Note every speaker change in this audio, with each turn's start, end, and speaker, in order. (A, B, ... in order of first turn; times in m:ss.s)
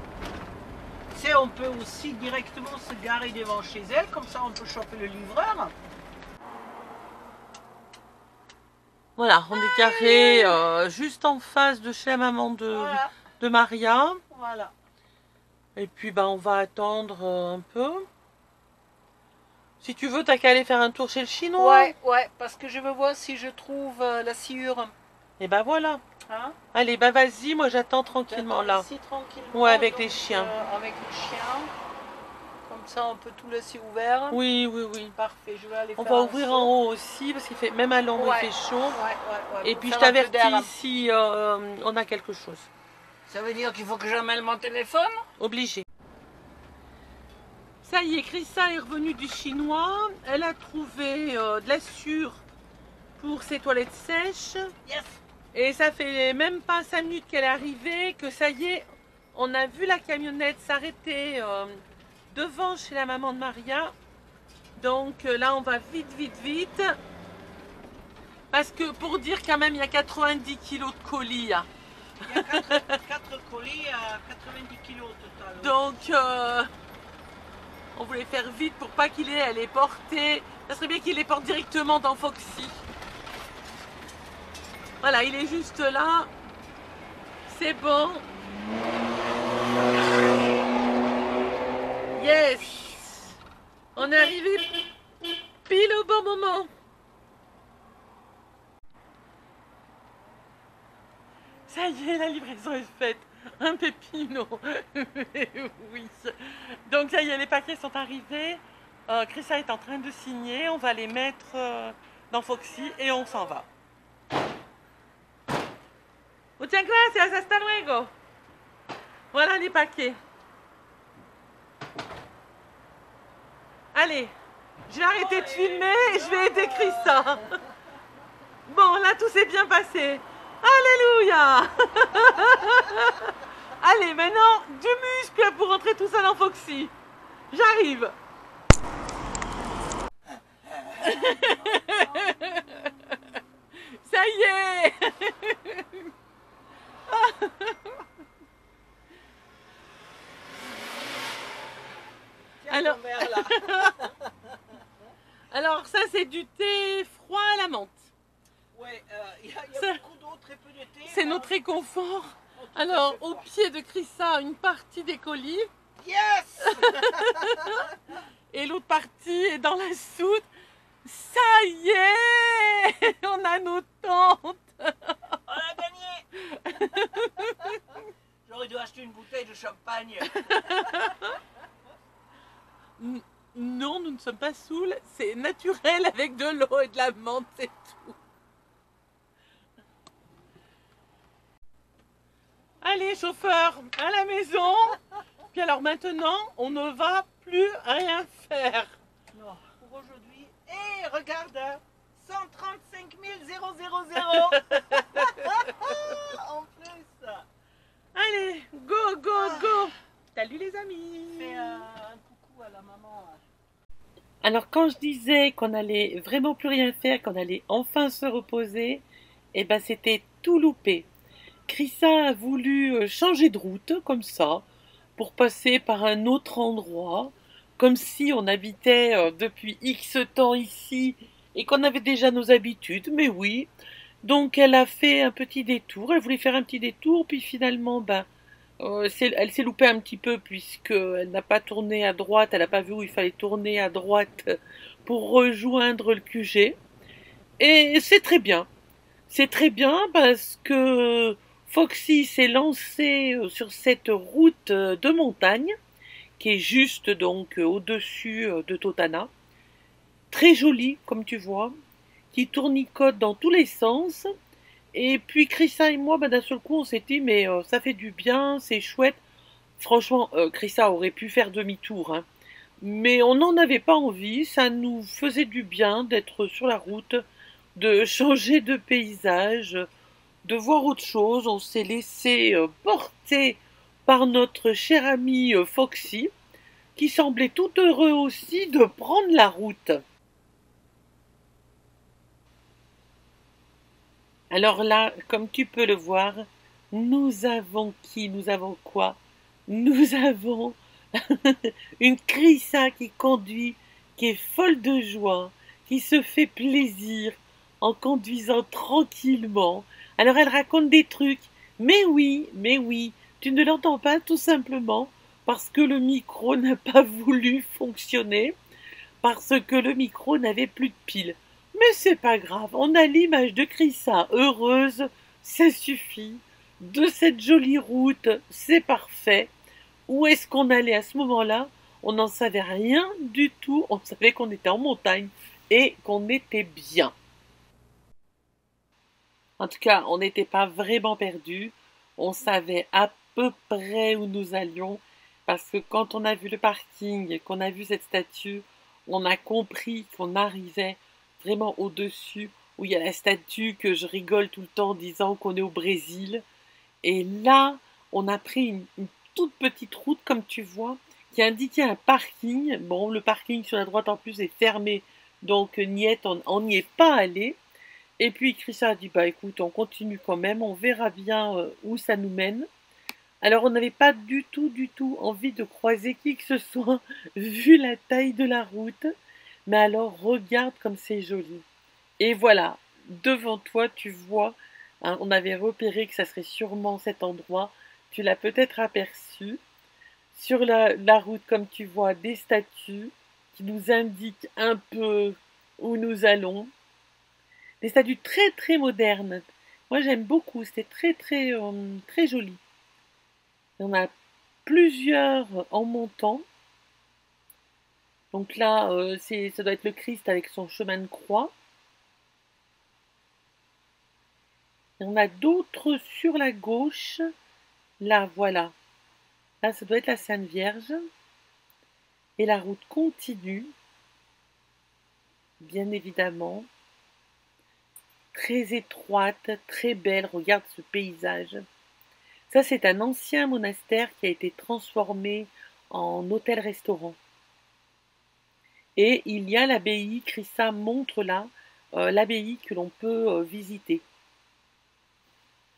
0:01.1-0:05.7 A
0:09.2-0:14.2 B
0:09.5-0:10.6 A
0:12.7-0:13.1 A
0:14.3-0:14.7 A
0:15.8-0:18.0 B
0:19.8-0:21.9 B
0:21.6-0:24.9 A
0:25.4-0:26.0 B
0:26.3-0:26.6 A
0:26.7-0:28.9 B
0:28.3-0:31.7 A
0:29.5-0:30.5 B
0:32.7-0:34.4 A
0:34.3-0:35.2 B
0:35.1-0:36.7 A
0:36.0-0:39.0 B
0:38.2-0:40.7 A
0:39.6-0:42.7 B
0:43.3-0:45.2 A
0:45.4-0:45.8 B
0:47.8-0:52.4 B
0:53.2-0:54.7 B
0:54.8-0:55.2 A
0:55.5-1:01.8 B
1:02.3-1:03.9 B
1:04.8-1:07.0 B
1:08.5-1:11.7 B
1:12.2-1:15.9 A
1:12.3-1:13.0 B
1:15.6-1:16.7 B
1:17.9-1:22.8 B
1:25.0-1:26.3 B
1:27.5-1:28.2 B
1:32.2-1:33.3 B
1:33.9-1:34.8 B
1:35.7-1:36.7 B
1:41.7-1:53.7 B
1:56.6-1:58.1 B
1:59.3-2:00.2 B
2:03.9-2:04.3 B
2:04.9-2:07.5 B
2:05.1-2:07.5 A
2:08.7-2:16.9 B
2:17.5-2:18.2 B
2:21.0-2:23.2 B
2:23.9-2:26.1 B
2:27.1-2:28.0 B
2:32.6-2:34.3 A
2:32.7-2:34.1 B
2:35.5-2:38.0 B
2:38.7-2:41.7 A
2:39.7-2:40.0 B
2:41.1-2:45.7 B
2:42.6-2:43.5 A
2:46.0-2:47.8 A
2:46.6-2:47.9 B
2:48.5-2:50.5 B
2:51.0-2:55.4 B
2:55.4-2:56.3 A
2:56.4-2:57.8 B
2:56.9-2:57.8 A
2:58.4-3:01.2 A
3:00.3-3:01.4 B
3:03.0-3:08.2 B
3:12.8-3:15.0 B
3:15.5-3:18.9 B
3:19.3-3:27.4 A
3:24.2-3:26.2 B
3:28.1-3:31.8 B
3:29.3-3:29.8 A
3:31.3-3:33.4 A
3:34.4-3:41.1 B
3:41.7-3:44.6 B
3:45.2-3:53.7 B
3:54.2-3:58.3 B
3:58.8-4:06.8 B
4:07.6-4:08.7 B
4:09.3-4:15.7 B
4:16.4-4:19.3 B
4:20.3-4:21.7 B
4:22.3-4:24.3 B
4:24.9-4:29.2 B
4:29.8-4:32.2 B
4:32.8-4:37.2 B
4:37.8-4:39.9 B
4:40.4-4:46.3 B
4:47.0-4:50.0 B
4:54.5-5:18.6 B
5:19.2-5:29.5 B
5:30.1-5:37.1 B
5:39.6-5:56.4 B
5:57.0-6:07.6 B
6:08.2-6:12.7 B
6:13.4-6:19.1 B
6:19.7-6:21.6 B
6:22.2-6:29.6 B
6:30.3-6:36.7 B
6:37.8-6:42.6 B
6:43.8-6:44.1 B
6:44.6-6:46.4 B
6:48.3-6:51.5 B
6:55.0-6:57.2 B
6:58.0-6:58.7 B
6:59.6-7:01.0 B
7:02.4-7:03.7 B
7:05.6-7:06.7 B
7:08.3-7:11.6 B
7:12.5-7:17.2 B
7:19.0-7:24.0 B